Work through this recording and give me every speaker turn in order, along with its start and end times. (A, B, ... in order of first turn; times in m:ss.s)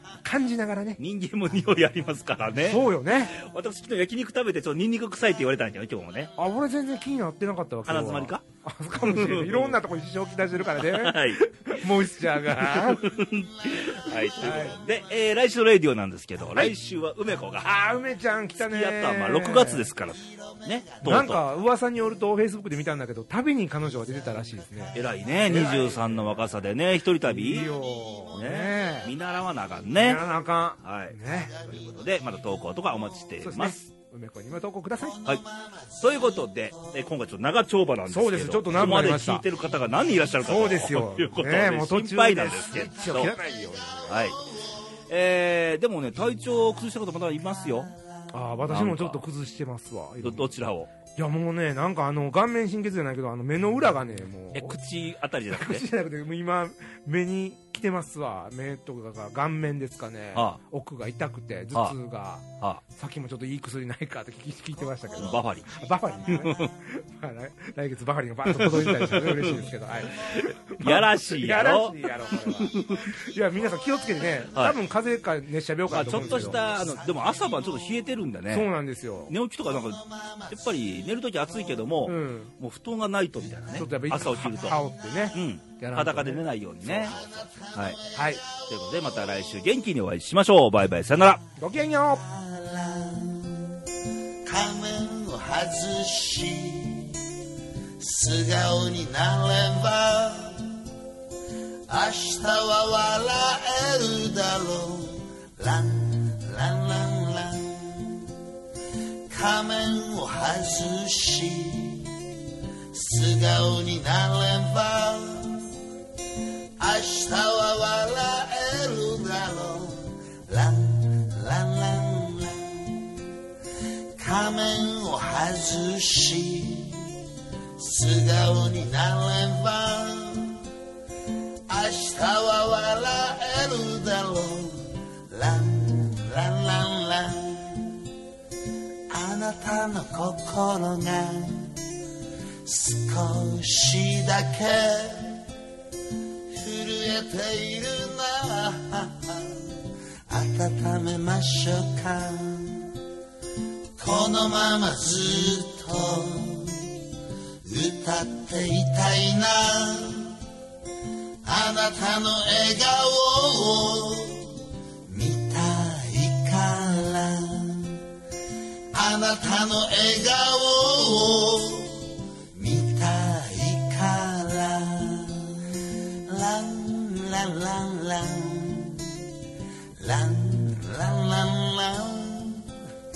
0:00.2-0:01.0 A
0:01.0-0:06.3 B
0:02.6-0:03.4 A
0:06.4-0:13.1 A
0:07.8-0:08.4 B
0:09.0-0:09.8 B
0:10.8-0:17.7 B
0:13.6-0:15.0 C
0:14.4-0:14.8 A
0:17.6-0:19.9 A
0:18.6-0:21.4 B
0:20.2-0:21.1 C
0:21.0-0:26.4 A
0:24.9-0:27.7 B
0:27.2-0:29.1 A
0:28.4-0:30.2 B
0:30.0-0:31.9 A
0:30.8-0:31.2 B
0:31.6-0:32.1 C
0:31.8-0:33.8 B
0:33.4-0:35.2 A
0:35.0-0:36.9 C
0:36.0-0:43.3 B
0:38.1-0:39.4 A
0:40.4-0:44.2 A
0:43.8-0:45.0 C
0:44.1-0:44.4 B
0:45.1-0:47.9 B
0:48.3-0:50.5 A
0:48.7-0:49.2 B
0:50.2-0:50.9 B
0:51.1-0:54.8 A
0:54.5-0:55.8 B
0:55.5-1:16.6 A
1:05.2-1:06.7 B
1:08.5-1:13.1 B
1:15.9-1:18.7 B
1:16.1-1:18.0 C
1:18.5-1:19.3 A
1:19.3-1:24.8 B
1:19.8-1:20.6 C
1:22.0-1:22.5 A
1:23.8-1:26.4 A
1:25.3-1:28.0 B
1:26.9-1:29.5 C
1:28.1-1:28.4 A
1:28.7-1:31.4 B
1:31.6-1:32.2 A
1:32.1-1:33.8 C
1:34.4-1:37.3 C
1:38.0-1:40.8 C
1:41.9-1:48.4 C
1:49.3-1:52.2 C
1:52.9-1:55.7 C
1:56.8-2:03.2 C
2:04.2-2:07.1 C
2:07.8-2:10.6 C
2:11.7-2:18.0 C
2:19.1-2:21.9 C
2:22.6-2:25.4 C
2:26.5-2:33.0 C
2:34.0-2:37.0 C
2:37.6-2:40.4 C
2:41.4-2:48.0 C
2:48.9-2:59.3 C
3:00.0-3:02.8 C